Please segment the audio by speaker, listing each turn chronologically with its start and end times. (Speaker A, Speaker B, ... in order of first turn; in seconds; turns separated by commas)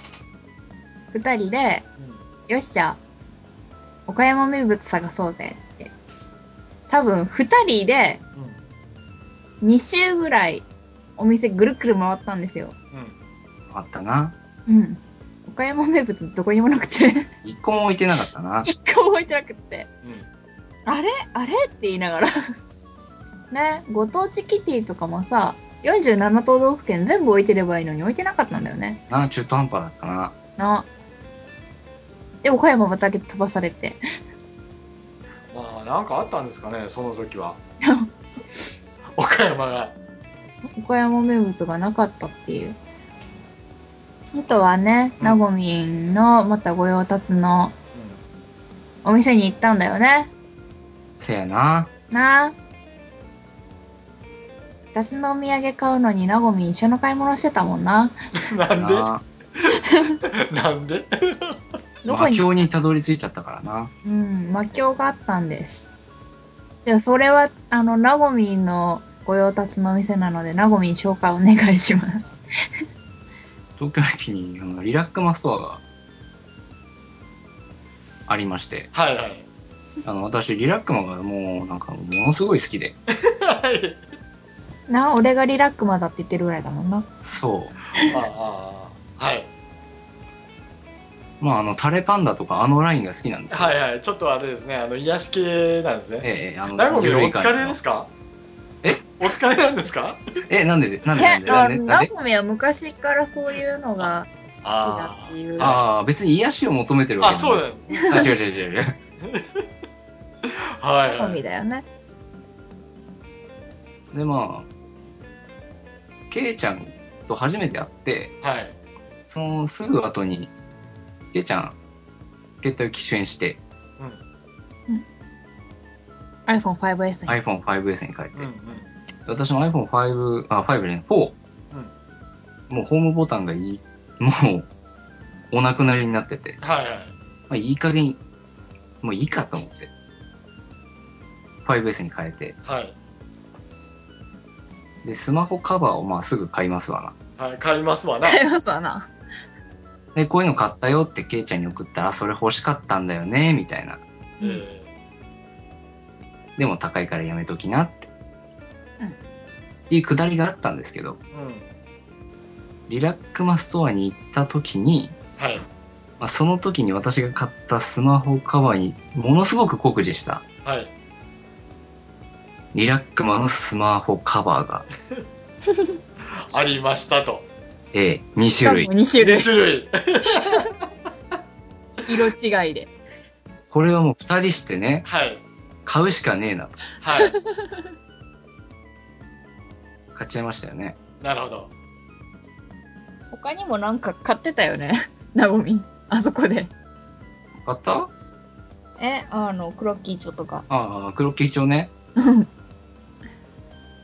Speaker A: 1.1-1.9, Speaker A: 2.5-3.0, Speaker A: 4.1-5.9, Speaker A: 6.9-8.2, Speaker A: 9.6-10.7, Speaker A: 11.2-12.8, Speaker B: 13.7-14.3, Speaker A: 14.7-17.3, Speaker B: 17.4-18.7, Speaker A: 18.6-19.9, Speaker A: 20.9-22.3, Speaker A: 23.5-29.0, Speaker B: 29.1-30.4, Speaker A: 30.6-30.9, Speaker A: 32.4-34.0, Speaker C: 35.5-37.6, Speaker A: 37.8-38.1, Speaker C: 39.2-39.9, Speaker A: 40.8-42.8, Speaker A: 44.3-47.7, Speaker C: 47.9-48.2, Speaker A: 49.0-50.3, Speaker B: 51.2-51.9, Speaker A: 52.1-52.5, Speaker A: 54.9-58.1, Speaker C: 58.4-59.1, Speaker B: 58.8-59.2, Speaker A: 59.9-60.2, Speaker C: 60.3-61.6, Speaker A: 62.0-62.7, Speaker B: 62.1-63.9, Speaker A: 64.0-65.8, Speaker A: 66.8-72.4, Speaker B: 73.8-75.8, Speaker B: 78.3-78.9, Speaker C: 78.9-79.5, Speaker B: 80.0-83.0, Speaker C: 83.2-84.0, Speaker A: 84.9-87.1, Speaker B: 87.2-87.8, Speaker C: 88.1-89.5, Speaker B: 91.4-93.8, Speaker C: 93.5-98.1, Speaker B: 96.2-97.8, Speaker C: 99.0-100.2, Speaker B: 100.5-102.1, Speaker A: 101.2-105.7, Speaker C: 104.6-105.9, Speaker B: 105.6-109.0, Speaker C: 107.2-108.3, Speaker A: 107.9-108.3, Speaker C: 109.3-109.6, Speaker C: 110.5-111.4, Speaker A: 111.1-111.8, Speaker B: 114.1-114.7, Speaker B: 116.3-118.3, Speaker C: 118.4-118.7, Speaker B: 119.3-120.5, Speaker B: 121.3-121.8, Speaker B: 122.6-123.6, Speaker A: 126.5-127.4, Speaker B: 127.3-128.5, Speaker C: 128.4-128.9, Speaker B: 129.3-131.3, Speaker B: 132.7-134.7, Speaker B: 135.5-136.6, Speaker C: 136.6-137.1, Speaker B: 137.5-138.2, Speaker B: 139.0-139.9, Speaker B: 141.6-142.6, Speaker C: 142.7-142.9, Speaker B: 145.0-147.2, Speaker C: 147.4-148.4, Speaker A: 148.2-149.1, Speaker B: 150.2-154.0, Speaker C: 154.4-154.9, Speaker B: 156.6-158.1, Speaker B: 159.9-161.2, Speaker C: 161.3-161.7, Speaker B: 162.9-165.2, Speaker C: 165.4-165.7, Speaker B: 166.2-170.4, Speaker C: 170.7-170.9, Speaker B: 172.7-174.9, Speaker A: 175.7-175.9, Speaker C: 176.5-177.4, Speaker B: 177.9-178.9, Speaker A: 178.6-179.5, Speaker C: 179.2-180.6, Speaker A: 180.3-180.6, Speaker A: 182.1-182.9, Speaker B: 183.7-185.1, Speaker C: 185.1-185.4, Speaker B: 185.9-186.9, Speaker C: 187.0-187.3, Speaker A: 187.1-187.7, Speaker B: 190.2-191.0, Speaker C: 191.2-191.7, Speaker A: 193.3-196.7, Speaker B: 197.6-198.1, Speaker A: 199.0-200.7, Speaker B: 200.7-201.9, Speaker A: 202.2-202.5